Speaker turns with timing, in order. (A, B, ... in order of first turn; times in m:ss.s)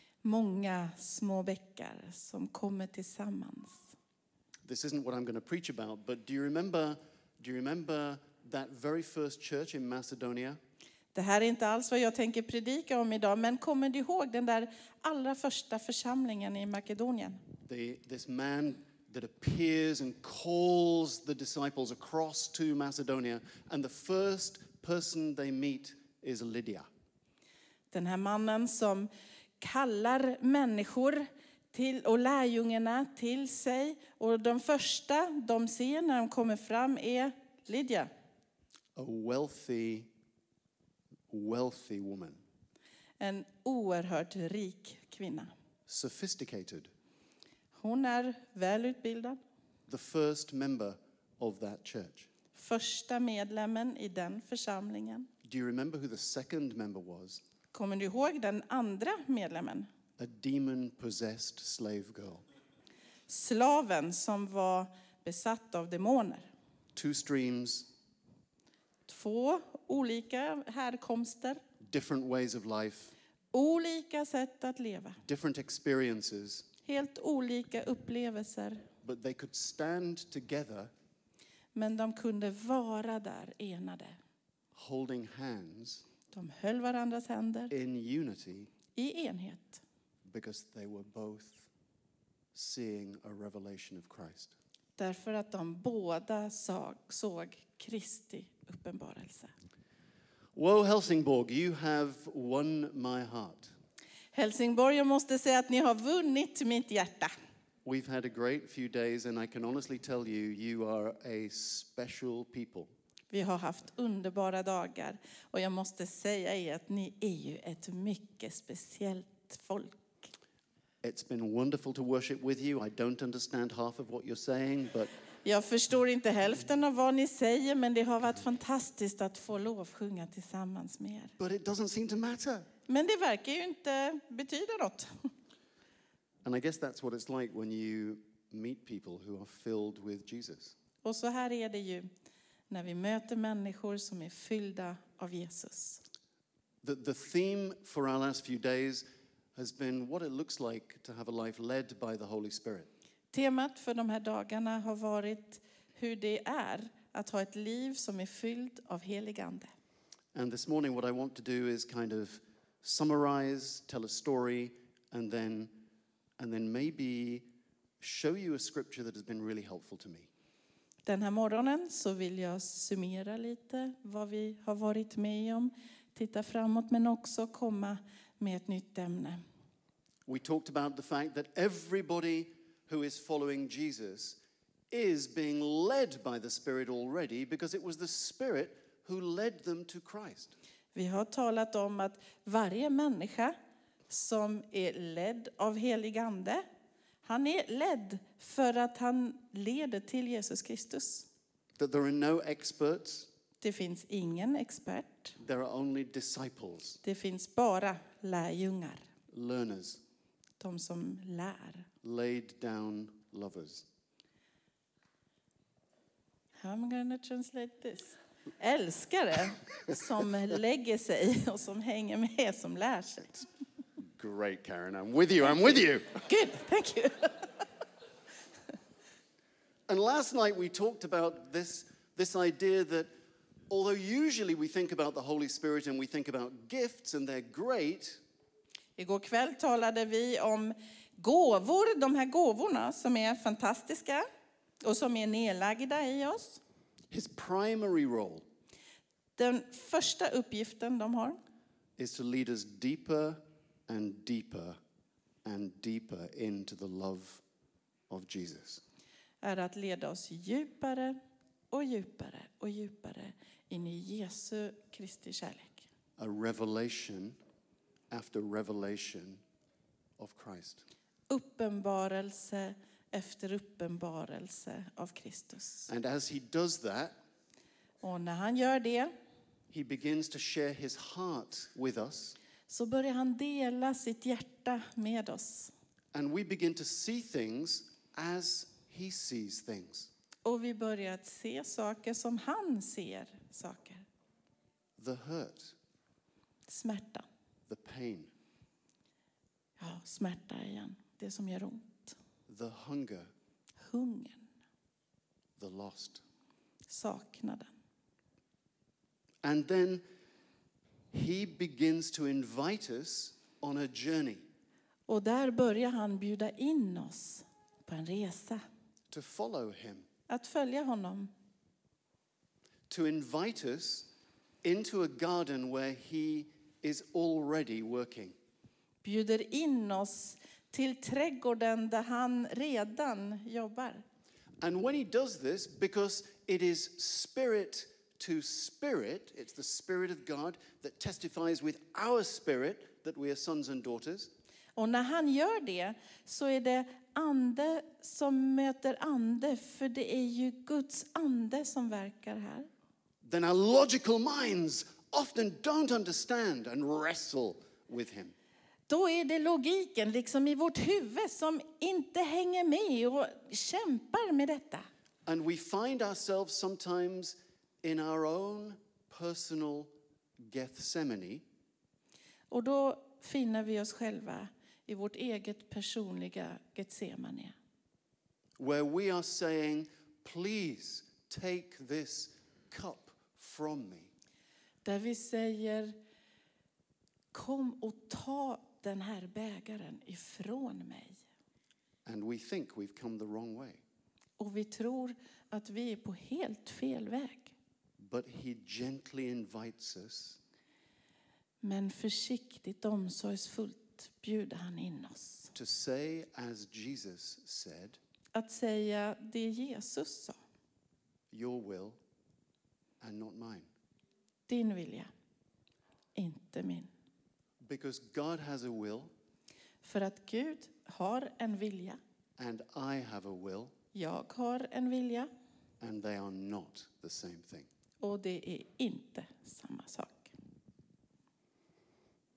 0:00.2-0:03.9 A
0:04.6-0:10.6 B
0:11.1-0:17.4 A
0:17.7-0:26.9 B
0:27.9-0:38.1 A
0:39.0-0:40.1 B
0:41.3-0:42.4 B
0:43.2-0:45.5 A
0:45.9-0:46.9 B
0:47.8-0:49.4 A
0:49.9-0:52.3 B
0:52.5-0:55.3 A
0:55.4-0:57.4 B
0:57.7-0:59.9 A
1:00.2-1:02.4 B
1:03.3-1:06.5 A
1:07.0-1:07.9 B
1:09.1-1:11.6 A
1:11.8-1:13.1 B
1:13.5-1:15.2 A
1:15.2-1:16.7 B
1:16.8-1:18.8 A
1:19.0-1:20.9 B
1:21.8-1:24.2 A
1:24.8-1:26.0 B
1:26.3-1:27.7 A
1:27.7-1:28.7 B
1:28.9-1:29.8 A
1:30.2-1:31.7 B
1:32.5-1:34.6 B
1:35.0-1:39.5 A
1:40.5-1:43.7 B
1:44.3-1:47.3 A
1:47.8-1:52.9 B
1:53.3-2:00.3 A
2:01.0-2:05.1 B
2:05.4-2:11.4 A
2:11.4-2:12.7 B
2:12.9-2:15.1 A
2:16.4-2:20.8 B
2:21.0-2:22.1 A
2:22.7-2:26.0 A
2:26.8-2:32.9 B
2:33.3-2:39.7 A
2:40.3-2:45.8 B
2:46.4-2:47.5 B
2:48.0-2:50.3 B
2:51.0-2:59.4 A
3:00.3-3:04.4 B
3:04.9-3:10.5 B
3:10.9-3:13.6 A
3:14.1-3:16.6 A
3:17.2-3:21.3 A
3:21.8-3:23.3 B
3:23.6-3:25.4 A
3:25.4-3:27.0 B
3:27.0-3:29.0 A
3:29.3-3:30.0 B
3:30.6-3:31.9 A
3:32.0-3:33.9 B
3:36.6-3:43.4 A
3:44.0-3:46.2 B
3:46.2-3:47.5 A
3:49.9-3:53.1 B
3:53.7-3:58.2 B
3:59.0-4:04.3 A
4:04.8-4:06.6 A
4:07.1-4:08.4 B
4:09.4-4:11.4 A
4:12.0-4:14.8 B
4:15.4-4:17.4 B
4:18.1-4:18.8 B
4:19.4-4:21.2 A
4:21.7-4:25.9 A
4:26.2-4:27.4 B
4:28.1-4:29.4 B
4:30.2-4:30.9 B
4:31.3-4:35.9 A
4:35.9-4:37.2 B
4:38.0-4:39.1 A
4:39.7-4:42.4 B
4:42.7-4:45.7 A
4:46.1-4:50.1 B
4:50.4-4:54.0 A
4:55.0-4:55.8 B
4:56.7-4:57.3 A
4:57.7-4:58.3 B
4:59.8-5:02.2 A
5:02.5-5:03.3 B
5:03.8-5:04.5 A
5:05.6-5:06.2 B
5:06.9-5:07.7 A
5:09.4-5:10.0 B
5:11.1-5:14.4 B
5:15.1-5:18.6 A
5:19.1-5:20.1 B
5:20.3-5:21.3 A
5:22.9-5:24.1 B
5:24.6-5:28.4 B
5:29.0-5:34.0 A
5:34.6-5:44.3 B
5:44.8-5:52.7 A
5:53.2-5:58.3 B
5:58.9-6:04.9 A
6:05.3-6:11.4 B
6:12.5-6:17.6 A
6:18.6-6:24.1 B
6:24.8-6:26.0 A
6:27.3-6:31.2 A
6:32.0-6:33.8 B
6:34.4-6:37.6 A
6:38.0-6:40.4 B
6:41.6-6:45.5 A
6:45.6-6:48.0 B
6:48.4-6:50.4 A
6:51.3-6:52.0 B
6:53.0-6:53.7 B
6:54.5-6:55.1 A
6:56.2-6:56.9 A
6:57.6-6:59.1 B
6:59.8-7:02.0 A
7:02.4-7:03.7 B
7:03.9-7:05.3 A
7:05.8-7:07.7 B
7:08.0-7:10.3 A